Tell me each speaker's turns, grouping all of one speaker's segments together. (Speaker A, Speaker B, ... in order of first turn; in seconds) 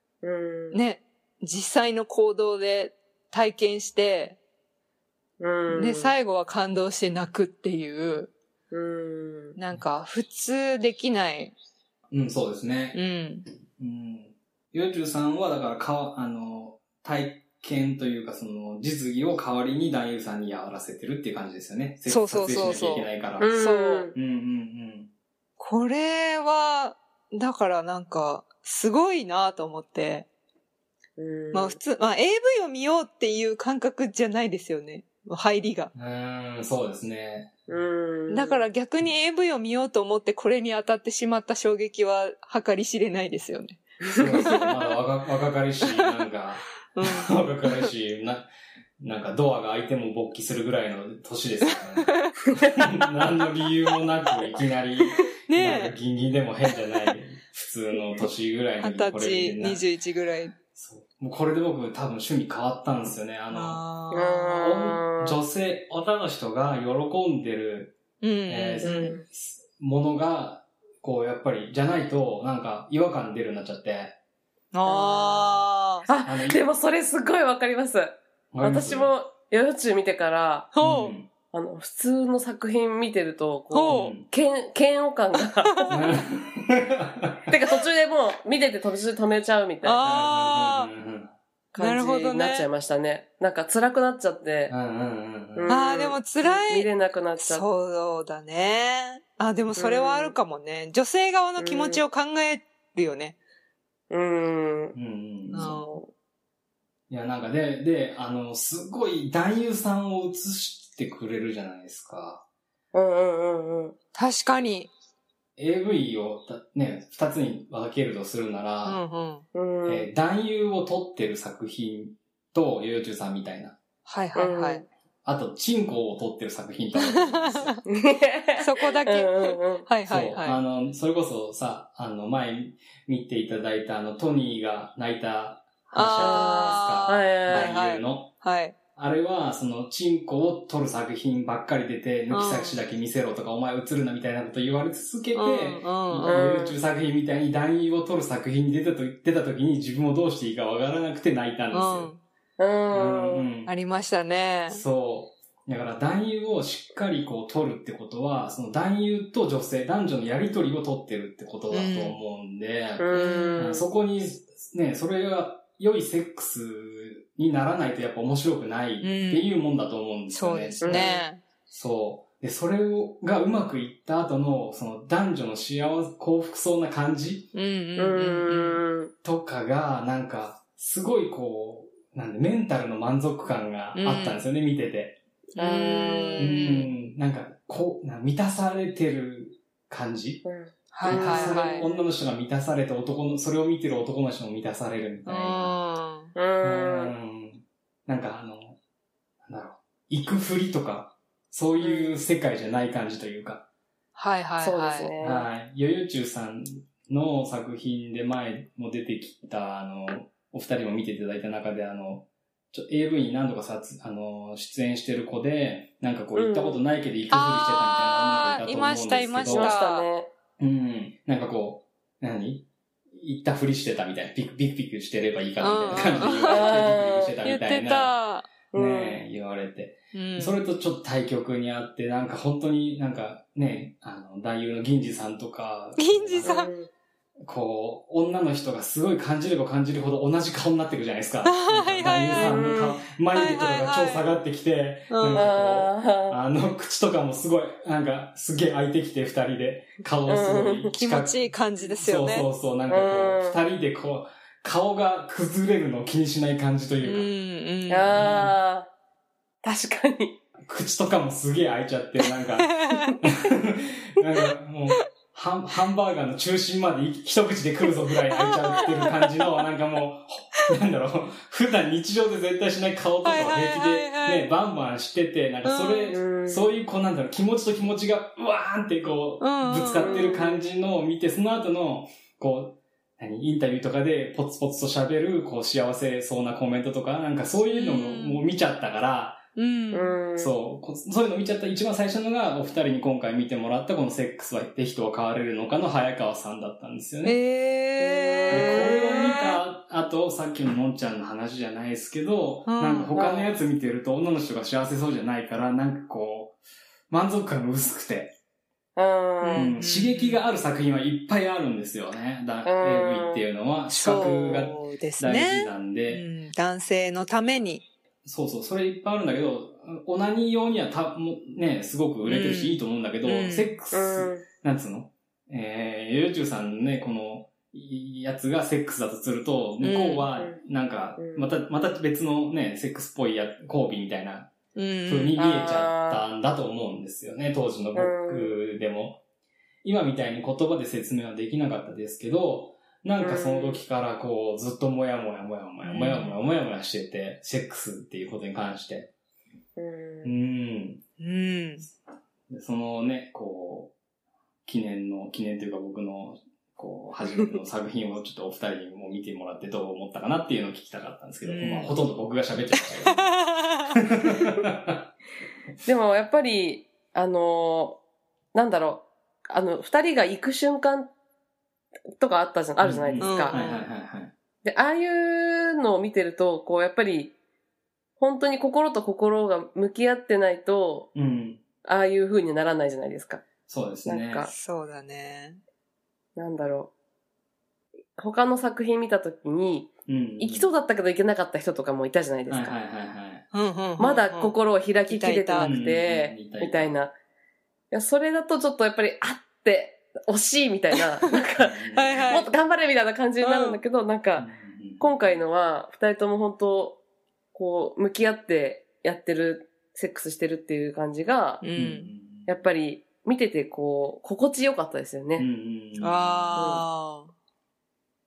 Speaker A: 0.2-0.8, 5.4-6.2, 8.7-9.6, 23.4-24.1, 31.2-31.8, 37.7-38.6, 52.5-52.8, 64.1-65.4, 68.8-69.2, 74.8-80.7, 81.5-86.0, 87.5-90.0, 91.7-94.7, 95.5-97.6, 99.7-100.3, 101.6-102.0, 104.1-105.0, 105.6-106.1, 112.9-114.0, 119.5-120.1, 124.3-124.9, 127.8-129.9, 136.1-137.7, 146.2-146.8, 152.6-153.5, 163.0-163.9, 170.8-171.2, 178.0-179.1, 185.6-186.6, 190.4-192.1, 196.3-197.1, 201.8-202.1, 204.6-205.5, 216.3-216.8, 219.4-220.3, 226.4-227.3, 228.7-229.2, 236.4-236.9, 242.3-242.9, 245.3-246.3, 250.2-250.9, 252.9-253.6, 257.9-258.9, 259.6-260.4, 276.1-276.7, 289.9-290.5, 298.0-298.9, 303.1-303.5, 308.9-309.7, 312.6-313.4, 323.9-324.4, 331.2-331.5, 335.4-336.2, 337.9-338.5, 343.2-343.8, 349.8-350.3, 365.8-368.0, 368.5-371.1, 372.1-373.6, 374.6-377.3, 378.2-381.1, 381.8-383.4, 384.0-384.5, 386.4-386.9, 388.1-392.8, 394.0-397.1, 397.9-401.8, 402.3-407.0, 407.5-411.6, 412.4-415.5, 416.5-416.8
Speaker B: 0.7-4.4, 5.7-8.3, 9.6-11.6, 12.9-13.4, 22.1-24.1, 25.6-30.3, 31.5-35.9, 38.3-44.7, 46.9-47.9, 51.7-52.4, 55.1-55.9, 58.8-60.5, 63.5-64.5, 68.2-69.2, 74.7-76.1, 80.7-81.2, 83.7-84.2, 85.7-86.0, 89.8-90.9, 91.8-92.7, 95.7-103.3, 105.5-106.0, 114.1-114.9, 118.8-119.5, 124.0-124.8, 127.0-127.8, 128.6-130.6, 135.9-138.8, 142.3-142.8, 145.3-146.4, 151.7-152.2, 153.7-154.8, 161.7-162.2, 163.1-163.8, 169.0-169.5, 170.3-171.4, 177.5-178.8, 183.9-184.4, 185.6-186.9, 190.9-191.8, 195.2-196.3, 204.1-205.2, 217.3-220.1, 225.6-226.8, 227.4-228.5, 230.1-230.6, 236.0-236.7, 241.4-244.3, 245.1-245.5, 251.0-252.5, 257.0-258.2, 262.7-263.1, 268.3-269.0, 273.2-274.5, 275.6-276.2, 279.4-280.4, 287.7-288.4, 289.6-290.1, 297.2-299.6, 302.7-303.2, 309.4-310.4, 313.9-317.9, 322.2-323.7, 329.8-330.3, 334.7-335.4, 345.8-346.4, 351.2-351.9, 361.4-361.9, 363.1-363.9, 373.2-373.8, 384.5-385.6, 393.5-394.6, 395.1-395.8, 401.9-402.5, 403.4-403.8, 411.6-412.1, 416.0-417.3
Speaker C: 12.1-13.0, 13.8-25.1, 35.9-37.5, 44.1-48.5, 49.0-59.8, 60.7-63.8, 64.5-74.2, 76.2-76.6, 78.5-79.1, 80.8-81.3, 83.9-84.3, 85.9-87.5, 90.0-91.3, 94.7-95.7, 104.9-105.8, 107.1-112.4, 115.6-119.0, 119.9-123.8, 125.2-127.8, 130.1-138.3, 138.9-152.1, 152.9-153.7, 154.7-171.1, 171.7-177.5, 179.2-185.2, 186.4-190.4, 191.0-195.7, 196.6-198.8, 199.4-203.6, 205.2-219.7, 220.6-228.1, 228.7-236.5, 237.4-251.4, 252.0-257.3, 258.1-258.5, 260.6-289.4, 290.4-297.4, 298.5-306.6, 307.1-308.4, 309.5-316.2, 318.2-334.5, 335.1-339.2, 339.8-349.1, 350.2-351.0, 352.5-353.9, 354.6-365.1, 372.8-374.3, 381.1-381.6, 383.7-384.5, 390.1-390.7, 392.5-393.5, 395.6-396.9, 401.6-402.4, 404.4-405.3, 411.8-412.5, 415.4-416.8